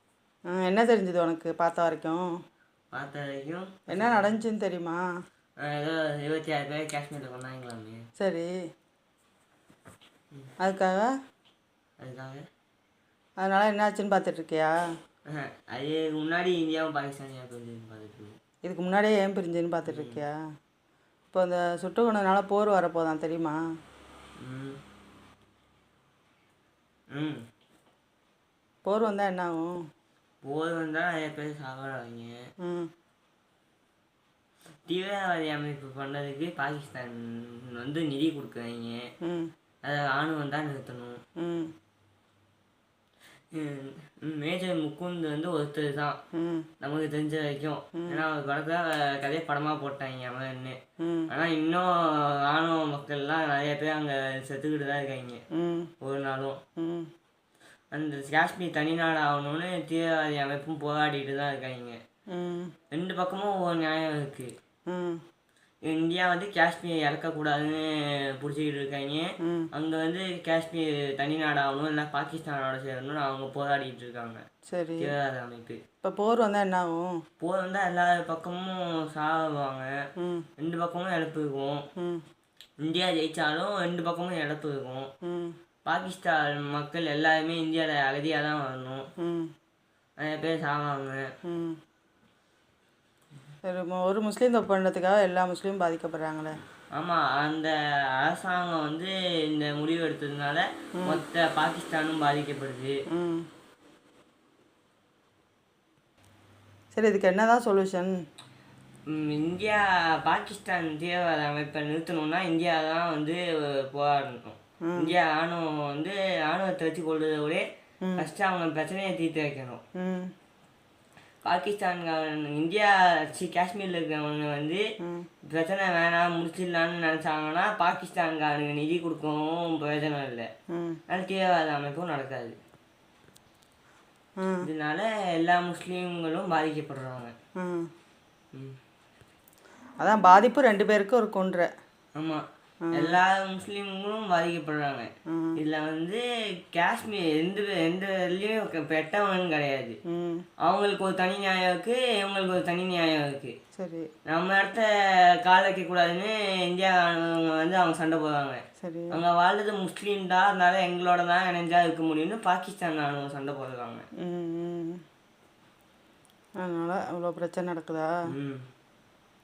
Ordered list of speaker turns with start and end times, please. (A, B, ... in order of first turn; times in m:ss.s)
0:00.5-0:02.2 A
0:02.9-0:04.3 B
0:03.9-0:05.0 A
0:05.6-0:08.0 B
0:08.2-0:08.5 A
0:10.6-0:11.1 A
0:12.0-0:12.4 B
0:13.4-0:14.8 A
0:15.3-0:18.4 B
0:18.6-0:20.3 A
0:19.9-0:20.2 B
0:21.3-0:23.6 A
0:24.4-0:24.8 B
0:27.1-0:27.4 B
0:28.8-0:29.8 A
0:30.4-0:32.4 B
0:32.6-0:32.9 A
0:34.9-0:39.1 B
0:39.2-0:39.5 A
0:39.8-0:41.2 B
0:41.4-0:41.7 A
0:43.5-0:46.2 B
0:46.3-0:46.7 A
0:46.8-0:50.8 B
0:48.0-0:48.2 A
0:51.0-0:51.3 A
0:51.3-0:55.4 B
0:55.5-0:55.9 A
0:56.0-0:56.6 B
0:56.8-0:57.1 A
0:57.9-1:02.0 B
1:02.3-1:02.7 A
1:02.9-1:04.5 B
1:04.9-1:05.2 A
1:05.8-1:14.4 B
1:09.4-1:09.7 A
1:14.7-1:15.1 A
1:15.0-1:15.8 B
1:16.0-1:17.2 A
1:17.4-1:20.0 B
1:20.2-1:20.5 A
1:20.6-1:21.8 B
1:22.0-1:22.2 A
1:22.8-1:25.1 B
1:25.2-1:25.6 A
1:25.8-1:29.0 B
1:29.2-1:29.5 A
1:30.2-1:31.3 B
1:31.4-1:31.8 A
1:33.6-1:36.6 A
1:36.9-1:43.0 B
1:43.1-1:43.5 A
1:46.9-1:48.2 A
1:49.1-1:57.6 B
1:54.8-1:55.1 A
1:58.0-1:58.3 A
1:58.2-1:59.8 B
2:00.0-2:00.3 A
2:01.4-2:04.8 B
2:05.0-2:05.3 A
2:05.4-2:10.5 B
2:10.7-2:11.0 A
2:11.1-2:12.6 B
2:14.4-2:14.7 A
2:14.6-2:17.3 B
2:17.6-2:17.9 A
2:20.0-2:21.7 A
2:22.1-2:30.0 B
2:22.8-2:23.2 A
2:25.3-2:25.6 A
2:30.1-2:30.4 A
2:30.6-2:33.5 B
2:33.7-2:34.1 A
2:34.2-2:44.0 B
2:38.8-2:39.2 A
2:44.2-2:45.0 A
2:46.6-2:48.1 A
2:48.3-2:48.6 B